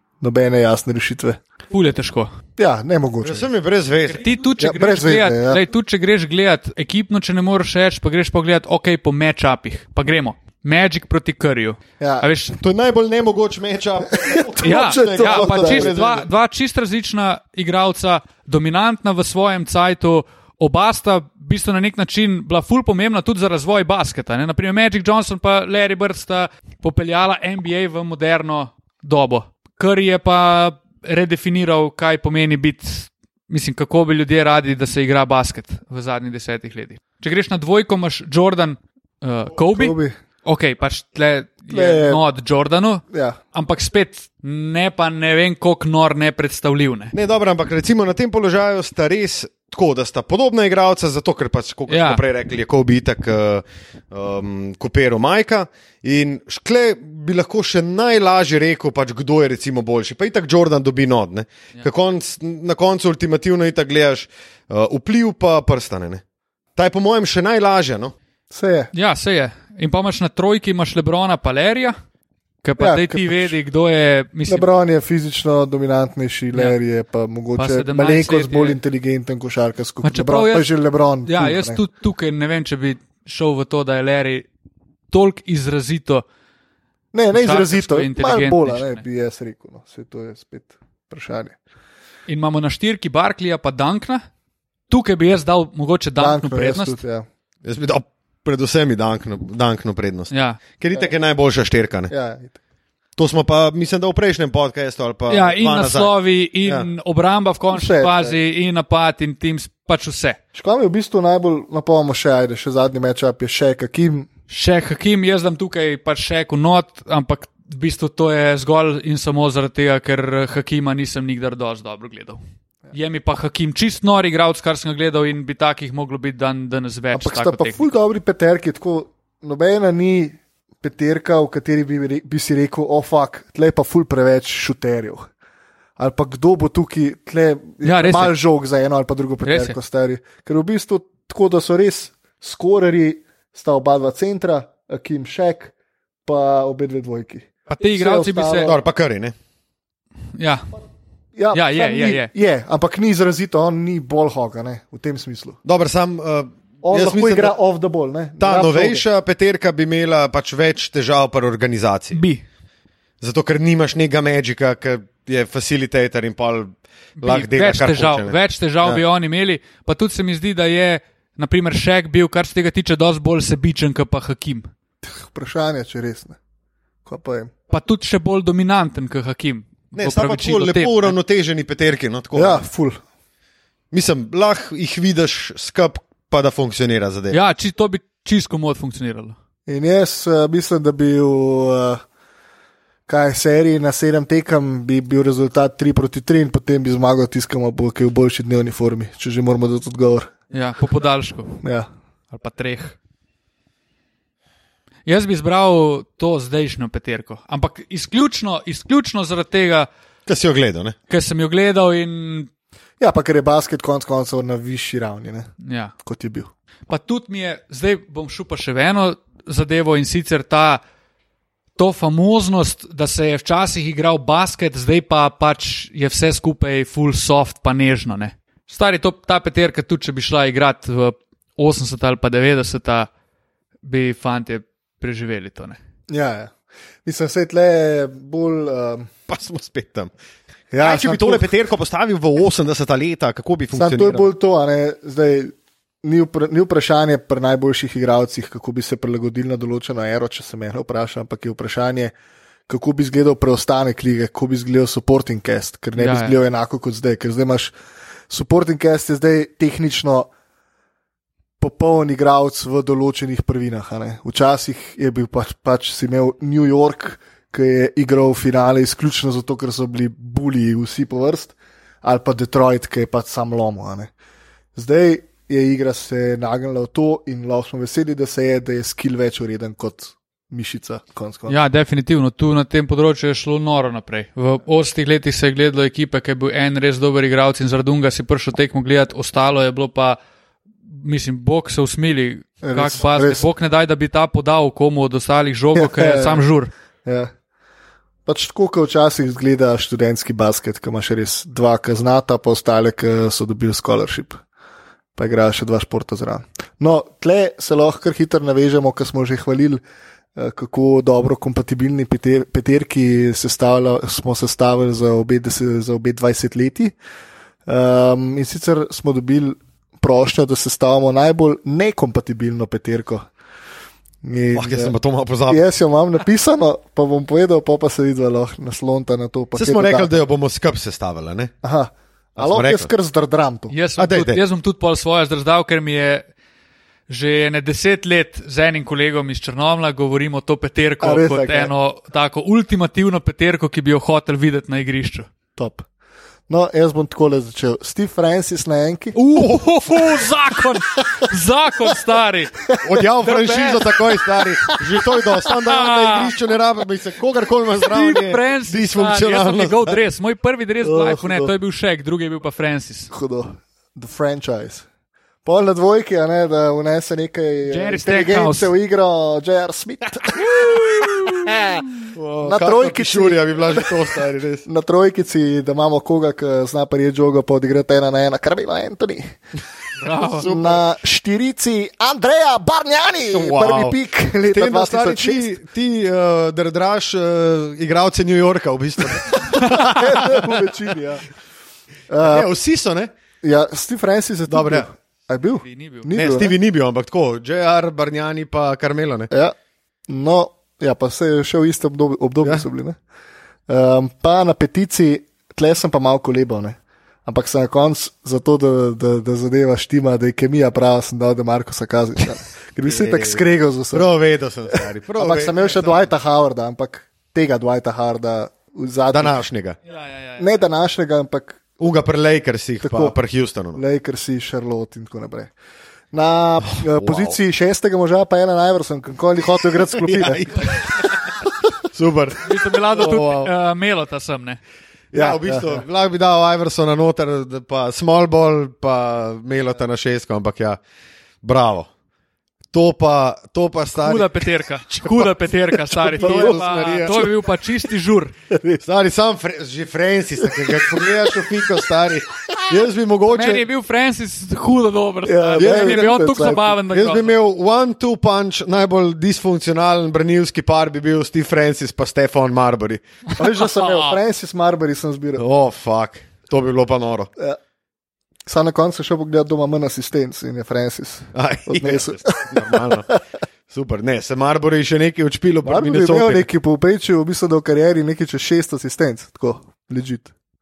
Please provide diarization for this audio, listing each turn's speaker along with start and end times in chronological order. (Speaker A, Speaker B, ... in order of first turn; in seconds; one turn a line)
Speaker A: 0.2-1.4
Speaker B: 1.7-2.3
Speaker A: 2.6-3.5
Speaker C: 3.2-4.2
Speaker B: 4.1-12.6
Speaker A: 4.6-5.6
Speaker A: 12.0-12.2
Speaker C: 12.6-16.3
Speaker A: 14.1-15.9
Speaker B: 14.6-47.1
Speaker A: 39.7-40.1
Speaker A: 41.7-42.2
Speaker A: 43.1-43.4
Speaker C: 47.1-66.2
Speaker B: 51.9-52.2
Speaker C: 66.8-68.1
Speaker A: 68.5-68.9
Speaker B: 68.9-71.9
Speaker B: 72.6-74.7
Speaker A: 72.8-73.5
Speaker A: 74.5-81.8
Speaker B: 77.5-78.8
Speaker B: 80.0-80.7
Speaker B: 81.2-84.5
Speaker B: 85.1-86.2
Speaker A: 87.1-91.6
Speaker B: 87.3-89.0
Speaker B: 92.3-94.2
Speaker B: 94.9-97.0
Speaker A: 96.2-97.2
Speaker C: 97.6-102.1
Speaker B: 100.3-100.6
Speaker A: 102.1-102.6
Speaker C: 103.2-106.9
Speaker B: 105.3-110.4
Speaker A: 107.7-108.4
Speaker A: 110.5-114.3
Speaker B: 114.5-122.4
Speaker B: 122.9-127.9
Speaker A: 127.1-135.2
Speaker A: 136.0-145.7
Speaker B: 137.8-138.3
Speaker B: 139.4-139.8
Speaker A: 146.2-148.8
Speaker B: 147.7-148.7
Speaker C: 148.6-149.3
Speaker B: 150.4-150.7
Speaker A: 151.3-155.6
Speaker B: 151.5-152.3
Speaker C: 155.6-157.5
Speaker A: 156.8-159.0
Speaker C: 158.4-162.2
Speaker B: 162.1-162.4
Speaker C: 163.2-169.0
Speaker B: 167.2-174.7
Speaker A: 175.0-176.4
Speaker A: 177.1-177.5
Speaker B: 177.7-181.1
Speaker C: 179.9-182.7
Speaker A: 182.3-183.0
Speaker C: 183.9-187.4
Speaker B: 187.3-189.3
Speaker A: 189.7-192.0
Speaker A: 193.1-200.3
Speaker B: 200.5-201.6
Speaker A: 201.6-201.9
Speaker B: 202.3-202.9
Speaker B: 205.1-209.9
Speaker C: 210.3-210.9
Speaker B: 211.1-212.5
Speaker A: 213.0-215.5
Speaker B: 215.6-215.9
Speaker A: 216.0-216.5
Speaker B: 216.9-220.8
Speaker B: 221.8-233.1
Speaker B: 233.8-235.8
Speaker A: 236.1-236.5
Speaker A: 237.0-239.1
Speaker C: 239.3-240.1
Speaker A: 240.7-241.5
Speaker C: 240.8-244.3
Speaker A: 243.7-252.1
Speaker A: 252.7-257.7
Speaker B: 256.0-256.4
Speaker A: 258.3-260.3
Speaker A: 261.6-274.1
Speaker A: 274.7-281.6
Speaker B: 281.5-290.2
Speaker B: 290.9-296.7
Speaker A: 292.6-293.4
Speaker A: 295.7-296.4
Speaker A: 297.0-297.3
Speaker A: 298.2-304.4
Speaker A: 305.1-309.8
Speaker A: 310.4-316.9
Speaker A: 317.7-323.3
Speaker A: 324.2-324.9
Speaker C: 324.5-325.6
Speaker A: 325.5-330.1
Speaker C: 329.5-331.5
Speaker A: 331.6-333.7
Speaker C: 332.4-332.9
Speaker B: 333.7-336.3
Speaker C: 334.0-334.4
Speaker B: 337.1-345.3
Speaker A: 341.0-341.7
Speaker A: 345.6-345.9
Speaker A: 346.5-349.2
Speaker B: 349.1-352.7
Speaker A: 352.6-353.0
Speaker C: 352.8-360.0
Speaker B: 353.2-354.0
Speaker B: 355.4-356.3
Speaker B: 357.8-363.1
Speaker A: 360.8-361.5
Speaker A: 363.1-364.9
Speaker A: 365.4-371.8
Speaker B: 367.7-368.7
Speaker C: 372.1-374.6
Speaker A: 372.4-374.0
Speaker A: 374.6-379.4
Speaker B: 380.0-380.5
Speaker C: 380.1-380.8
Speaker A: 380.4-385.6
Speaker C: 383.3-384.0
Speaker C: 384.5-390.6
Speaker A: 389.5-391.2
Speaker A: 392.1-392.5
Speaker C: 392.2-393.1
Speaker A: 393.4-396.5
Speaker C: 394.5-394.9
Speaker B: 395.6-396.1
Speaker C: 396.1-399.3
Speaker A: 400.1-403.0
Speaker A: 403.7-414.1
Speaker C: 412.8-415.9
Speaker A: 414.7-419.4
Speaker C: 419.1-419.8
Speaker B: 419.9-420.5
Speaker A: 420.4-421.6
Speaker C: 421.8-423.8
Speaker A: 422.8-423.1
Speaker A: 423.7-425.5
Speaker A: 426.1-430.5
Speaker C: 426.6-427.4
Speaker C: 429.9-431.2
Speaker C: 431.9-433.5
Speaker B: 432.4-434.6
Speaker C: 435.1-440.8
Speaker A: 435.1-435.8
Speaker C: 441.4-441.9
Speaker C: 442.7-444.3
Speaker B: 443.9-448.3
Speaker C: 444.9-447.3
Speaker A: 446.2-447.3
Speaker A: 448.5-448.8
Speaker C: 448.8-453.6
Speaker B: 453.3-457.3
Speaker A: 455.2-456.8
Speaker C: 455.6-456.2
Speaker C: 456.9-463.0
Speaker B: 463.3-464.2
Speaker A: 463.4-465.4
Speaker C: 465.4-467.3
Speaker A: 468.4-473.2
Speaker C: 471.3-473.1
Speaker C: 473.7-476.5
Speaker A: 475.6-480.3